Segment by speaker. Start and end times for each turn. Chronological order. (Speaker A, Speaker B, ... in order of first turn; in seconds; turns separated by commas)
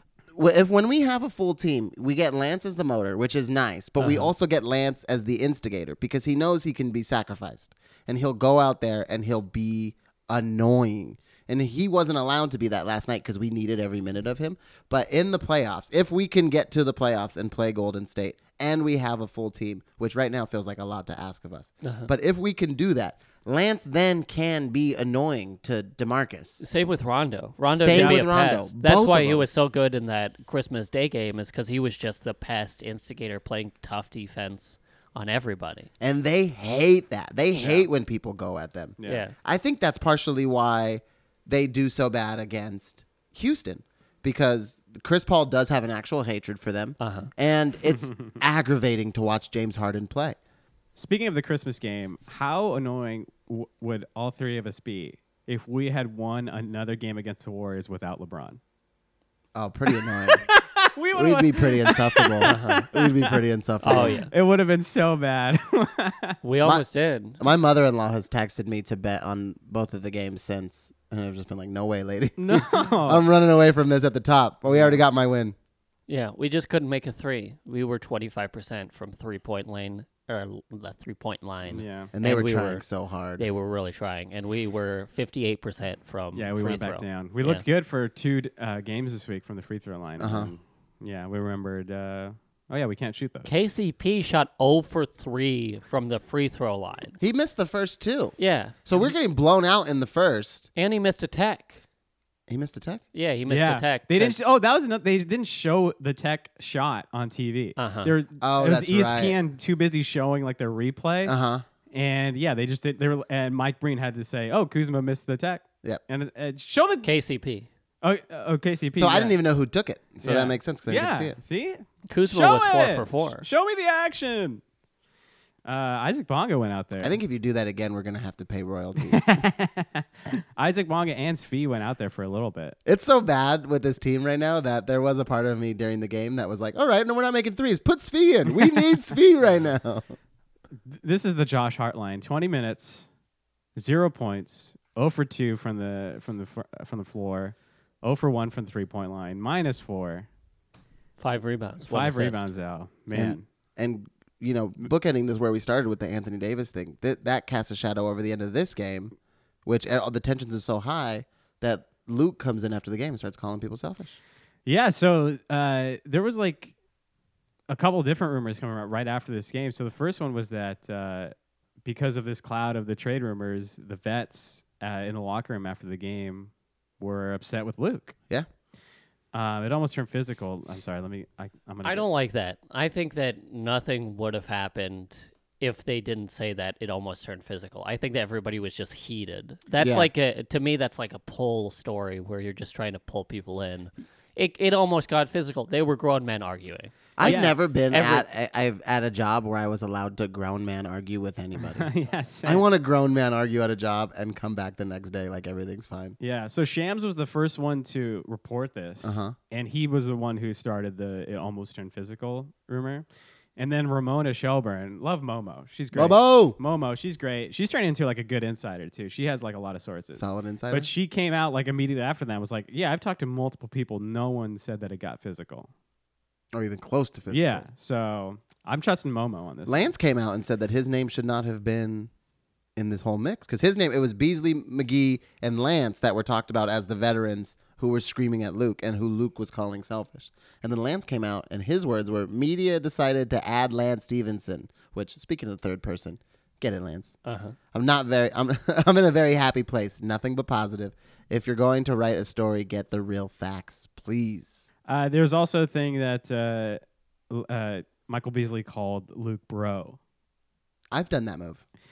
Speaker A: 0.3-26.6, Speaker B: 21.8-22.1, Speaker B: 26.6-35.9, Speaker A: 27.7-29.4, Speaker C: 27.9-28.2, Speaker A: 36.0-50.4, Speaker B: 39.0-39.3, Speaker B: 47.0-47.3, Speaker C: 47.9-48.3, Speaker C: 51.0-58.6, Speaker A: 59.5-60.5, Speaker C: 60.2-66.4, Speaker A: 61.1-64.2, Speaker B: 62.4-62.9, Speaker B: 63.8-64.3, Speaker B: 66.4-67.4, Speaker A: 67.4-75.5, Speaker C: 72.4-73.2, Speaker C: 74.7-75.0, Speaker B: 76.1-82.8, Speaker C: 81.7-82.1, Speaker A: 82.1-83.4, Speaker B: 83.4-87.6, Speaker C: 86.3-93.5, Speaker A: 90.2-90.5, Speaker B: 93.4-97.2, Speaker A: 97.2-100.7, Speaker B: 98.4-98.7, Speaker B: 100.8-101.8, Speaker A: 102.5-103.0, Speaker B: 103.1-104.4, Speaker C: 103.5-111.3, Speaker B: 107.8-108.1, Speaker A: 108.4-109.4, Speaker A: 111.2-111.6, Speaker C: 111.9-117.1, Speaker B: 117.0-117.7, Speaker C: 118.0-119.4, Speaker A: 119.0-121.4, Speaker C: 120.2-124.6, Speaker B: 122.1-123.5, Speaker C: 125.6-127.2, Speaker A: 127.0-129.4, Speaker C: 129.0-132.8, Speaker A: 132.8-140.1, Speaker C: 140.9-143.1, Speaker C: 143.7-150.3, Speaker B: 151.2-152.5, Speaker C: 151.8-153.4, Speaker A: 153.1-159.1, Speaker A: 159.6-164.2, Speaker C: 164.7-166.7, Speaker C: 167.7-171.3, Speaker C: 171.8-178.1, Speaker C: 179.3-182.1, Speaker B: 181.8-198.2, Speaker A: 189.8-190.1, Speaker A: 197.2-201.9, Speaker C: 197.2-197.6, Speaker C: 201.7-202.6, Speaker A: 202.4-206.2, Speaker C: 206.2-213.0, Speaker A: 209.0-209.3, Speaker C: 213.6-225.7, Speaker A: 215.9-216.6, Speaker A: 220.2-220.9, Speaker A: 226.5-227.6, Speaker C: 227.3-229.9, Speaker A: 229.7-232.1, Speaker A: 232.8-247.2, Speaker B: 247.2-247.6, Speaker A: 247.7-254.7, Speaker C: 254.8-260.0, Speaker A: 260.9-261.6